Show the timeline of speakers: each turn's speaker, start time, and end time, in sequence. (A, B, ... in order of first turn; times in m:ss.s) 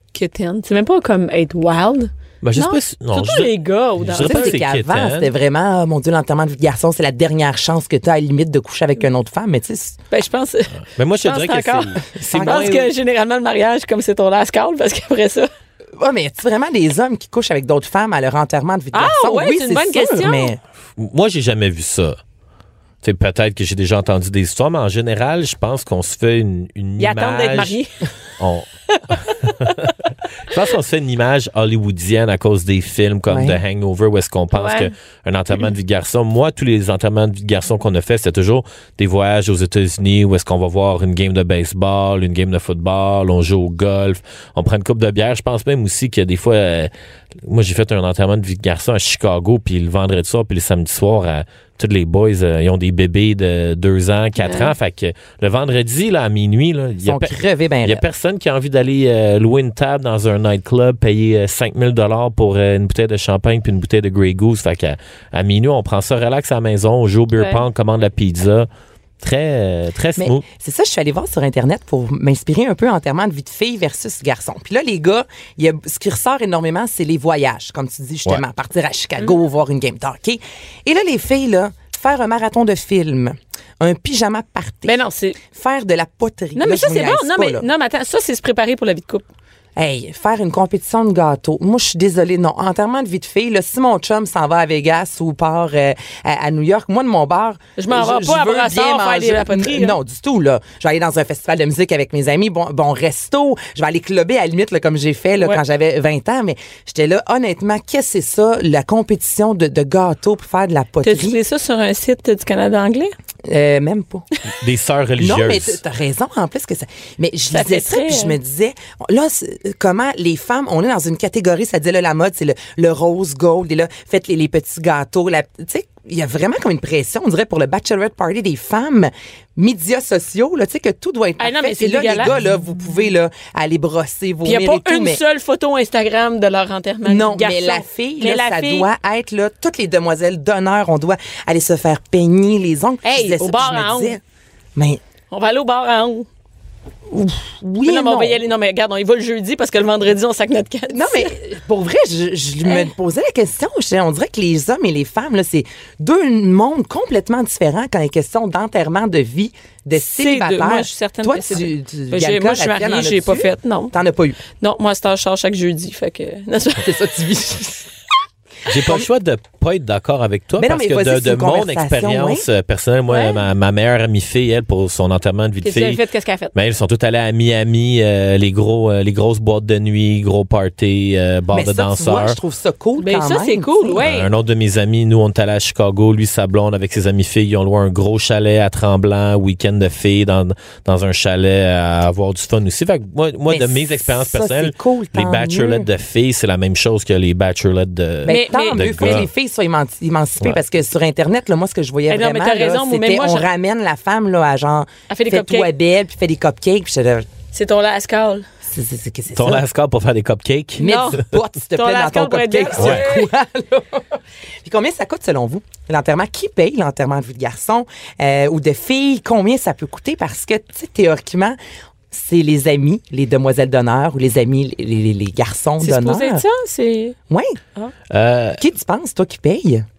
0:00.1-0:04.6 A
0:02.4-0:05.3 B
0:04.2-0:10.0 C
0:10.1-0:15.5 A
0:11.0-0:12.9 B
0:12.2-0:12.8 C
0:16.0-0:20.6 C
0:18.9-0:20.5 A
0:21.0-0:22.2 B
0:23.0-0:27.8 B
0:27.0-0:27.9 A
0:28.4-0:46.9 B
0:33.3-0:33.6 C
0:34.5-0:34.9 A
0:47.4-1:08.7 B
0:54.4-0:54.7 A
0:57.0-0:58.0 C
1:07.4-1:07.6 A
1:09.2-1:10.4 B
1:10.2-1:25.0 C
1:24.8-1:25.4 A
1:25.5-1:27.6 C
1:26.6-1:29.2 A
1:29.8-1:51.4 C
1:37.8-1:40.0 A
1:51.0-1:53.1 A
1:53.4-1:54.2 C
1:54.6-1:55.8 B
1:55.2-2:15.2 C
1:57.5-1:58.4 A
2:11.4-2:12.3 A
2:14.4-2:18.9 A
2:17.0-2:24.2 C
2:23.0-2:24.2 A
2:24.7-2:25.0 C
2:25.3-2:26.3 A
2:27.1-2:28.4 C
2:27.8-2:31.3 A
2:30.9-2:44.4 C
2:40.0-2:43.9 A
2:44.6-2:47.0 A
2:46.8-2:47.9 C
2:48.7-2:56.0 B
2:48.8-2:49.1 C
2:50.6-2:52.5 C
2:53.1-2:53.4 A
2:55.6-2:56.5 A
2:56.5-3:02.4 B
3:01.5-3:04.0 C
3:03.0-3:04.3 A
3:04.0-3:19.3 B
3:13.5-3:15.9 C
3:18.2-3:27.3 C
3:18.3-3:19.2 A
3:22.1-3:23.5 A
3:25.1-3:25.7 A
3:27.5-3:28.4 A
3:28.7-3:29.6 C
3:29.3-3:31.0 B
3:30.8-3:41.6 C
3:30.8-3:33.2 A
3:32.8-3:33.0 B
3:42.1-3:46.4 C
3:45.8-3:47.2 A
3:47.3-3:47.6 C
3:48.1-3:48.6 B
3:48.6-3:49.9 C